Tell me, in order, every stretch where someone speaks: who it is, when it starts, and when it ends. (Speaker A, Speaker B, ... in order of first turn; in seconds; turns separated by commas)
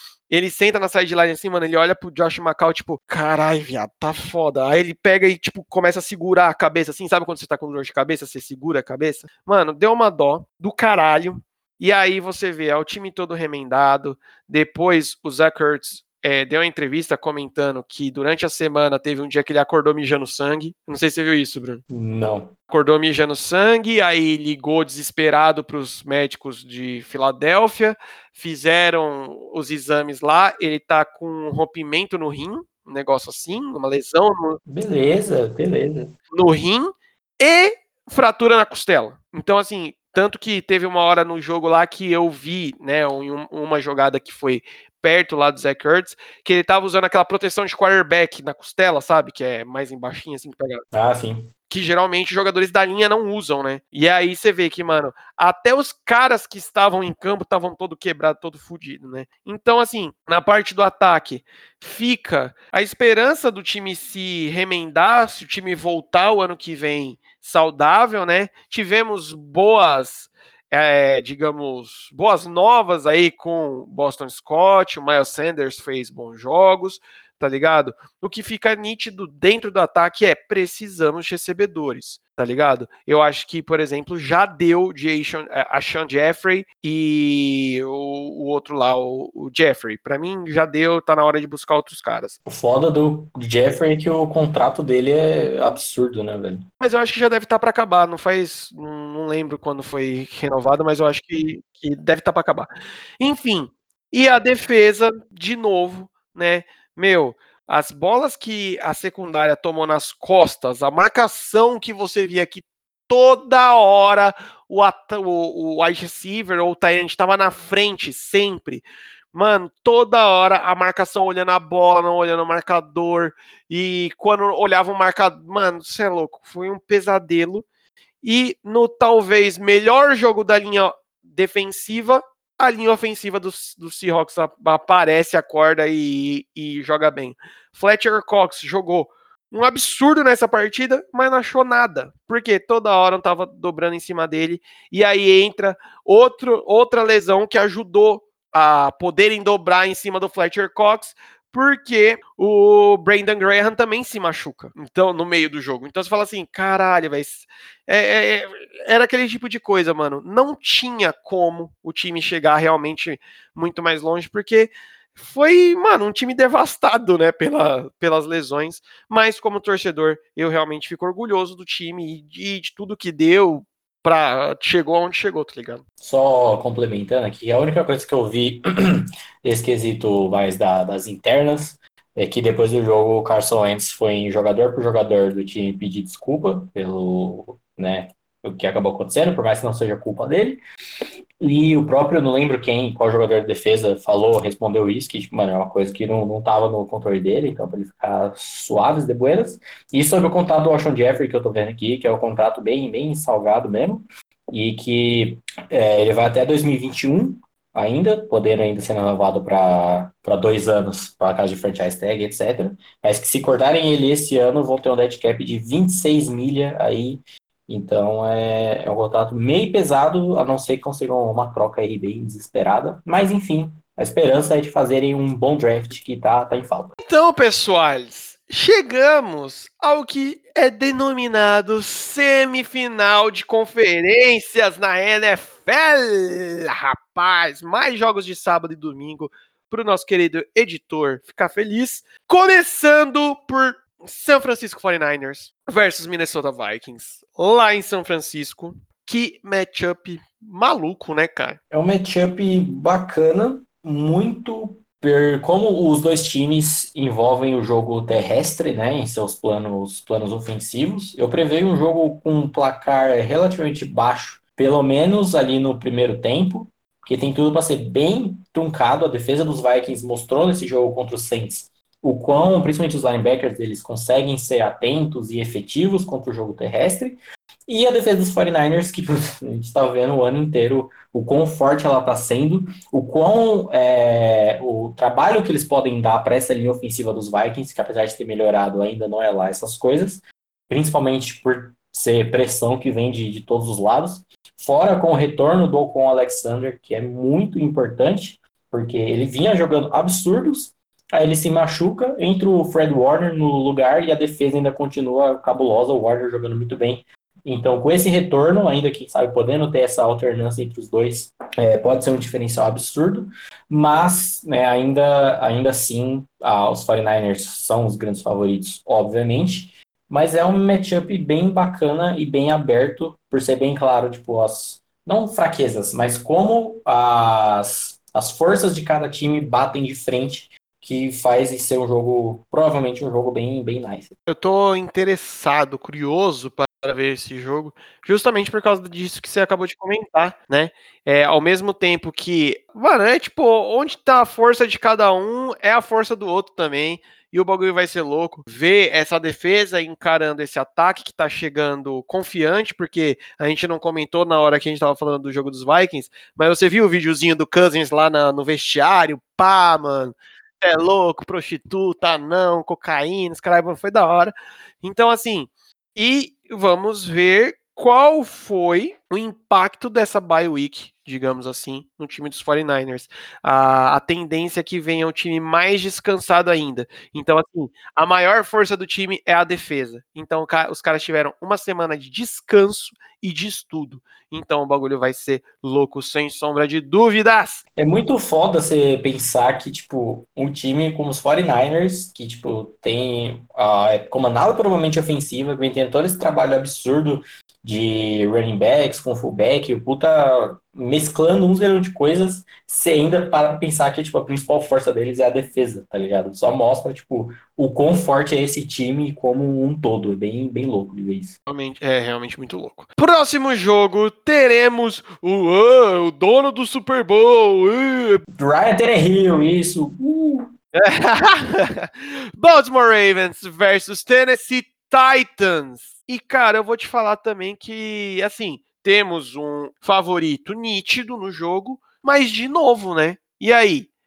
Speaker A: 0.3-21.8, Speaker B: 21.9-22.5, Speaker A: 22.7-34.6, Speaker B: 34.7-36.1, Speaker A: 36.3-50.8, Speaker B: 50.9-51.5, Speaker A: 51.7-92.4, Speaker B: 92.5-96.7, Speaker A: 96.8-102.7, Speaker A: 103.2-127.7, Speaker A: 128.2-175.8, Speaker B: 176.0-190.6, Speaker B: 191.4-226.9, Speaker A: 227.0-251.6, Speaker B: 251.7-334.2, Speaker A: 334.3-387.6, Speaker B: 387.8-411.4, Speaker A: 411.5-418.2, Speaker B: 418.3-420.5, Speaker A: 420.7-433.9